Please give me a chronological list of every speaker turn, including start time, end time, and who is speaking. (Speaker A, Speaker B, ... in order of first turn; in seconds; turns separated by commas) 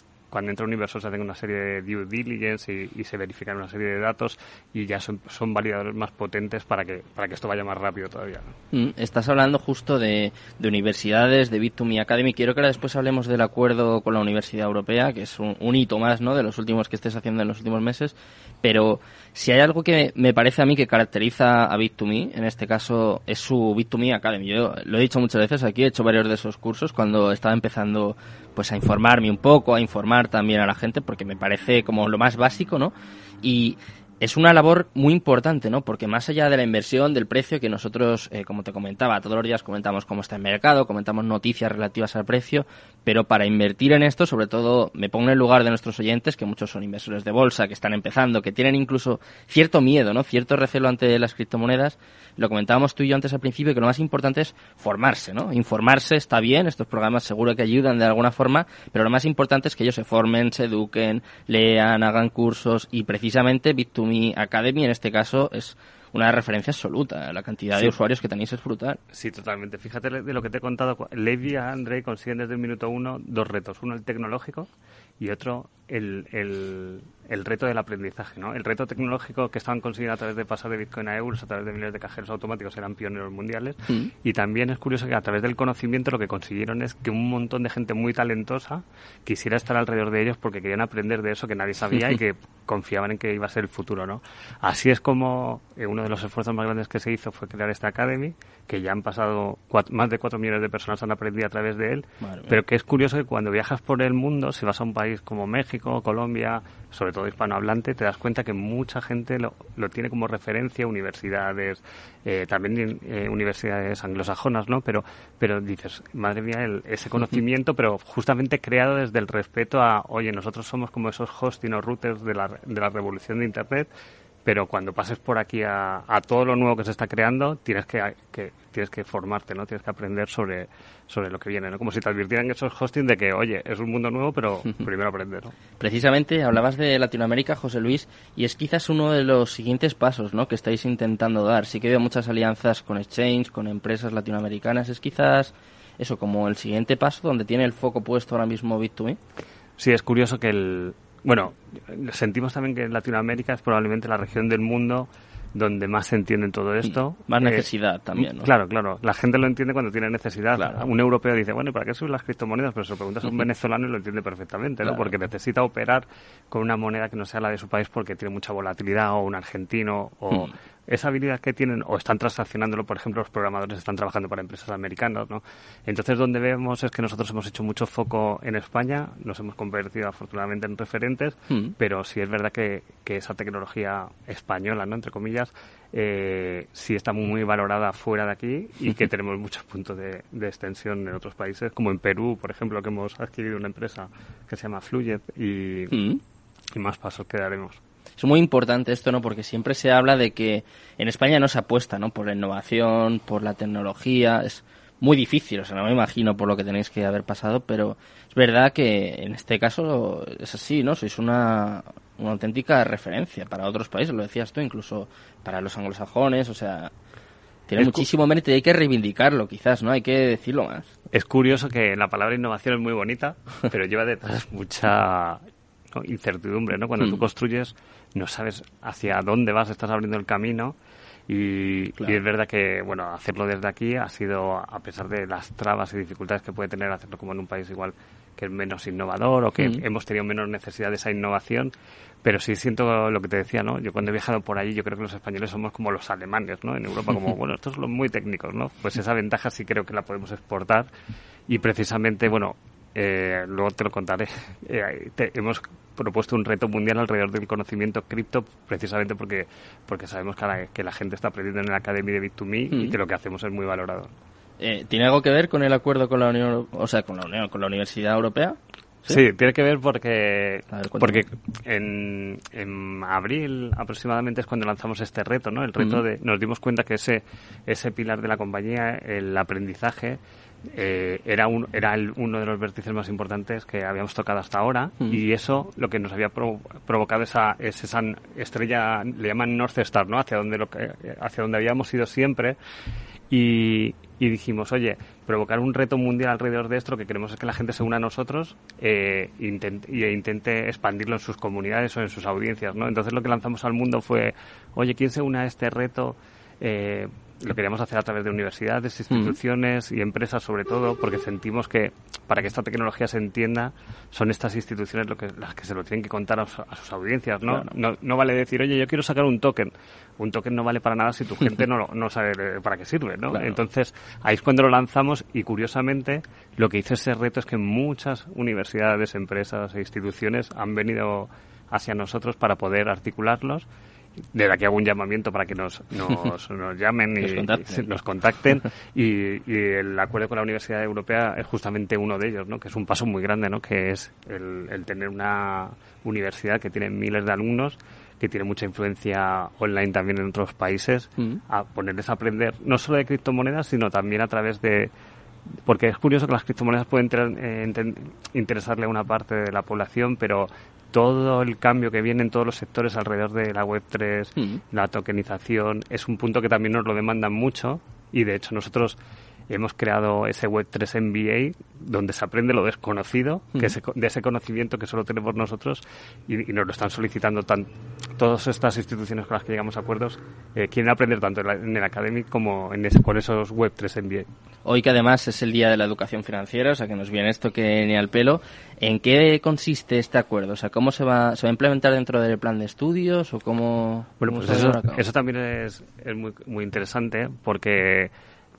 Speaker A: 0.3-8.5, Speaker B: 8.7-69.0, Speaker A: 69.1-123.9, Speaker B: 102.2-102.6, Speaker A: 124.4-135.5, Speaker B: 135.8-149.2, Speaker A: 149.8-196.0, Speaker B: 156.8-158.5, Speaker B: 160.6-160.8, Speaker B: 195.9-196.2, Speaker A: 196.7-197.8, Speaker B: 198.2-216.9, Speaker B: 217.7-220.9, Speaker A: 217.8-218.0, Speaker A: 221.1-230.8, Speaker A: 231.3-241.7, Speaker A: 242.2-250.9, Speaker A: 251.5-264.1, Speaker B: 262.7-262.9, Speaker B: 264.6-269.2, Speaker A: 269.1-292.6, Speaker B: 270.7-271.2, Speaker A: 293.3-333.7, Speaker B: 323.3-323.6, Speaker A: 334.3-354.9, Speaker B: 337.2-337.9, Speaker A: 355.6-369.0, Speaker A: 369.5-384.3, Speaker B: 384.6-395.0, Speaker A: 394.2-398.1